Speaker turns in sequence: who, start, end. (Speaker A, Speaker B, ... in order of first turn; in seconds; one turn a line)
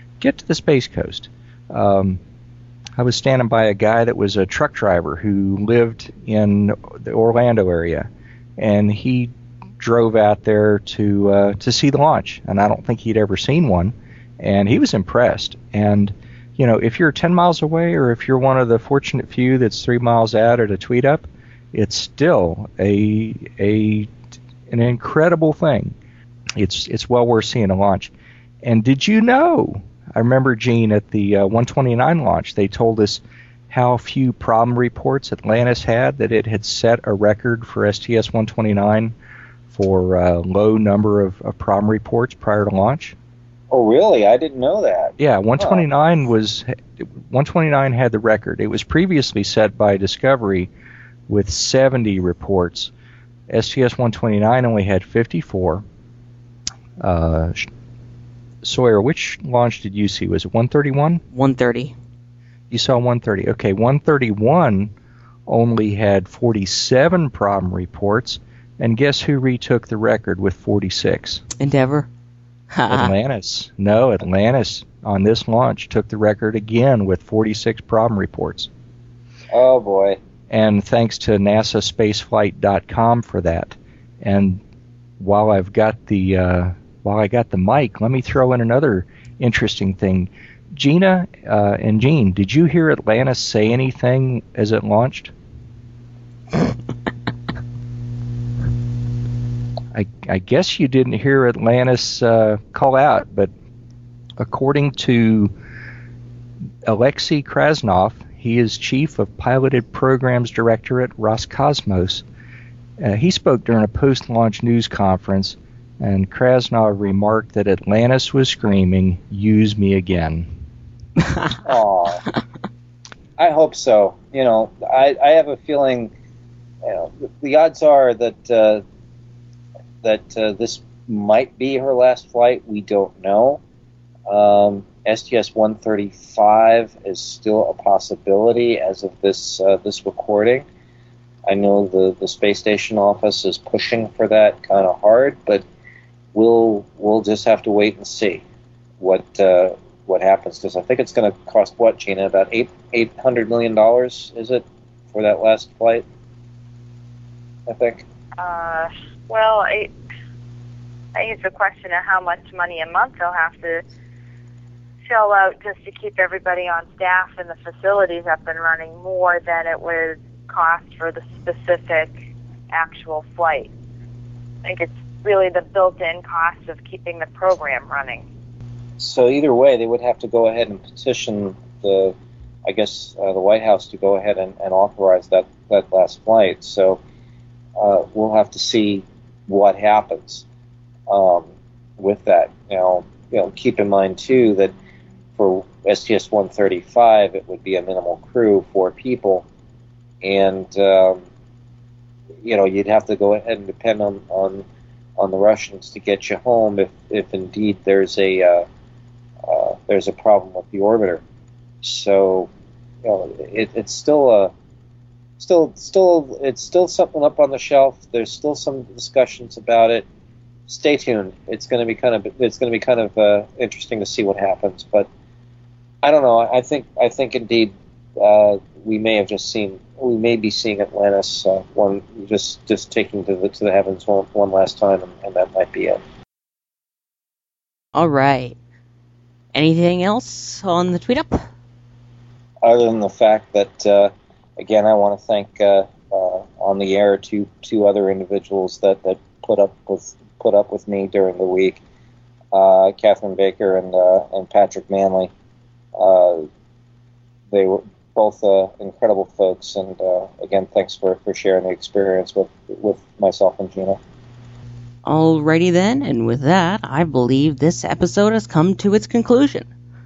Speaker A: 0.2-2.2
Speaker A: 3.0-24.1
Speaker A: 24.7-25.9
Speaker A: 26.6-28.1
Speaker A: 28.6-39.1
Speaker A: 39.7-43.1
Speaker B: 43.7-45.8
Speaker A: 45.2-50.7
Speaker A: 51.3-52.9
Speaker A: 53.5-55.8
Speaker A: 57.0-57.6
Speaker A: 58.6-61.2
Speaker C: 61.3-61.9
Speaker A: 62.7-64.9
Speaker A: 65.5-71.4
Speaker C: 71.6-72.1
Speaker C: 72.7-73.1
Speaker A: 72.9-78.7
Speaker B: 79.5-80.2
Speaker A: 80.5-84.6
Speaker A: 85.2-95.3
Speaker A: 99.9-103.5
Speaker A: 104.4-105.5
Speaker A: 106.8-112.2
Speaker A: 113.0-120.5
Speaker B: 121.6-122.2
Speaker B: 123.4-126.1
Speaker B: 126.8-128.8
Speaker B: 130.0-133.6
Speaker B: 134.3-140.7
Speaker B: 141.4-145.6
Speaker B: 146.3-148.4
Speaker B: 149.0-156.0
Speaker B: 157.7-158.0
Speaker D: 158.4-159.9
Speaker D: 161.1-163.8
Speaker D: 165.1-172.1
Speaker D: 172.7-173.7
Speaker D: 174.6-178.2
Speaker B: 179.0-182.1
Speaker B: 182.7-187.0
Speaker B: 187.8-190.4
Speaker B: 191.1-194.7
Speaker B: 195.3-199.4
Speaker B: 200.2-201.2
Speaker B: 202.4-204.6
Speaker B: 205.2-208.7
Speaker B: 209.4-211.2
Speaker B: 211.8-212.5
Speaker B: 213.0-214.5
Speaker B: 215.4-220.0
Speaker B: 220.7-225.1
Speaker B: 226.0-236.0
Speaker C: 237.9-238.6
Speaker C: 239.5-241.4
Speaker B: 242.6-251.8
Speaker B: 252.5-255.3
Speaker B: 255.9-256.4
Speaker B: 257.5-264.0
Speaker C: 265.0-269.7